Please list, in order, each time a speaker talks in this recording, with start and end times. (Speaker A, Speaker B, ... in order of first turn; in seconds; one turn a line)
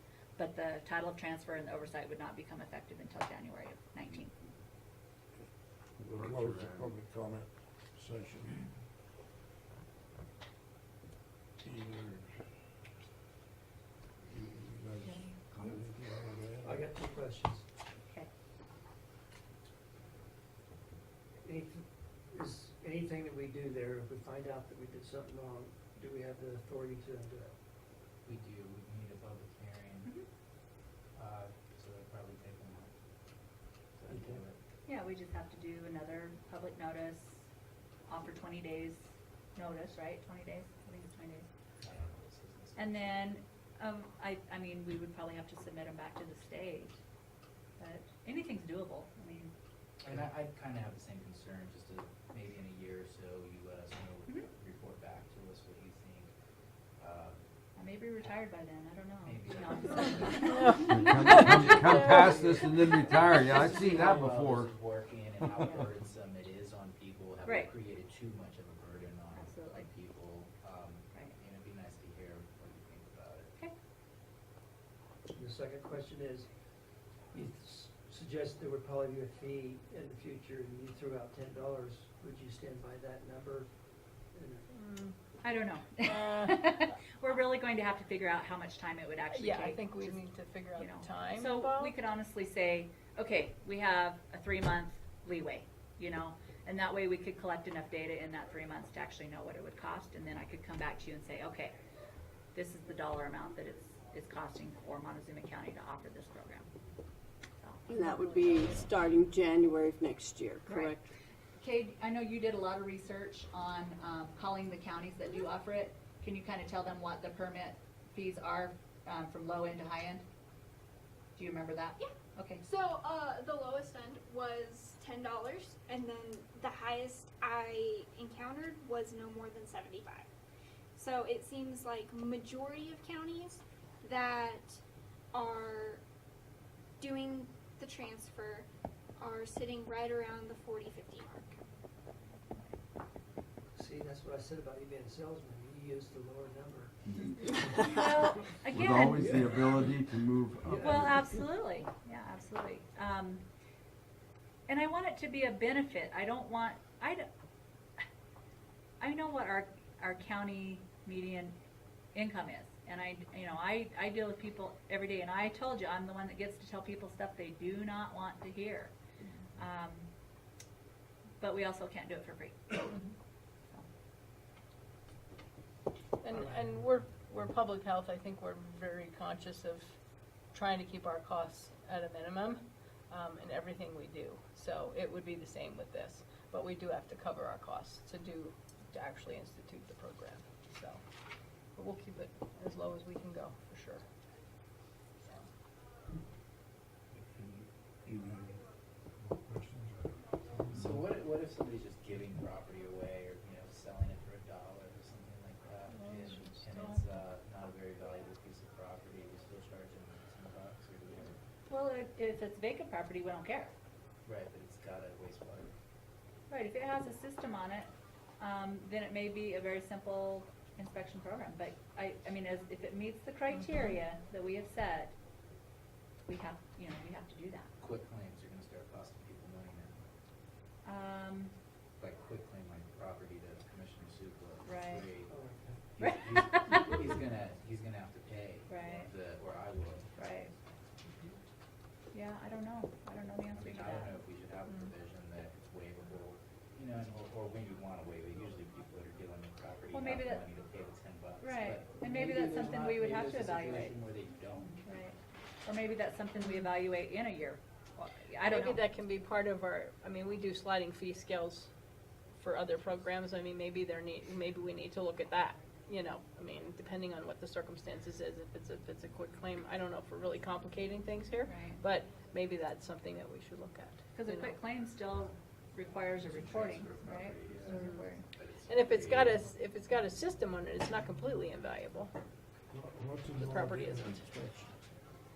Speaker A: 0.4-4.4
Speaker B: 6.0-8.7
Speaker C: 6.2-6.9
Speaker B: 11.6-12.4
Speaker B: 14.2-16.9
Speaker A: 15.0-15.8
Speaker D: 15.6-15.8
Speaker D: 16.6-17.6
Speaker A: 18.0-18.3
Speaker D: 21.4-27.5
Speaker E: 28.2-30.1
Speaker E: 31.1-32.9
Speaker E: 34.0-34.6
Speaker D: 34.1-34.5
Speaker A: 34.9-37.5
Speaker A: 38.1-41.5
Speaker E: 41.8-43.4
Speaker A: 42.8-47.0
Speaker A: 47.8-49.5
Speaker E: 50.0-56.3
Speaker E: 57.0-57.4
Speaker A: 57.8-60.7
Speaker E: 59.2-60.6
Speaker F: 60.5-62.1
Speaker C: 60.9-64.7
Speaker A: 61.3-61.6
Speaker E: 61.5-73.5
Speaker A: 67.4-67.7
Speaker A: 69.3-69.9
Speaker D: 75.3-76.5
Speaker D: 77.3-83.7
Speaker D: 84.3-84.7
Speaker F: 84.7-85.2
Speaker A: 85.4-90.2
Speaker F: 86.0-86.8
Speaker F: 89.3-91.9
Speaker A: 90.7-101.7
Speaker A: 102.5-106.7
Speaker A: 107.6-108.9
Speaker G: 107.9-111.1
Speaker A: 110.7-111.0
Speaker A: 111.6-120.2
Speaker A: 121.3-122.6
Speaker H: 122.6-130.3
Speaker H: 130.9-134.8
Speaker H: 135.3-136.0
Speaker H: 137.0-138.7
Speaker H: 139.2-141.4
Speaker D: 143.7-147.5
Speaker A: 147.8-149.3
Speaker C: 148.7-151.2
Speaker D: 149.2-149.6
Speaker D: 150.7-151.0
Speaker A: 150.8-153.4
Speaker A: 154.7-157.3
Speaker A: 159.0-161.6
Speaker A: 162.1-168.9
Speaker A: 169.5-170.1
Speaker A: 171.4-172.9
Speaker F: 176.2-179.9
Speaker F: 180.5-191.0
Speaker F: 191.7-194.0
Speaker E: 195.2-195.5
Speaker B: 197.4-198.6
Speaker B: 199.2-201.0
Speaker E: 200.7-211.3
Speaker F: 205.9-207.1
Speaker A: 211.7-213.7
Speaker E: 214.2-215.7
Speaker A: 216.5-225.1
Speaker A: 226.3-227.7
Speaker E: 227.8-230.0
Speaker A: 230.8-231.5
Speaker E: 232.0-235.3
Speaker A: 234.6-235.1
Speaker D: 235.3-235.8
Speaker E: 236.0-240.1
Speaker A: 236.0-236.9
Speaker A: 238.7-239.1
Speaker A: 240.2-240.5
Speaker A: 242.1-244.2
Speaker E: 243.5-254.8
Speaker A: 249.9-250.4
Speaker A: 251.4-253.9
Speaker A: 254.6-258.8
Speaker F: 258.5-261.7
Speaker F: 262.4-274.6
Speaker A: 271.4-271.8
Speaker A: 274.1-278.2
Speaker E: 276.2-279.5
Speaker F: 277.6-278.1
Speaker F: 278.7-282.1
Speaker B: 282.7-284.7
Speaker F: 283.3-284.3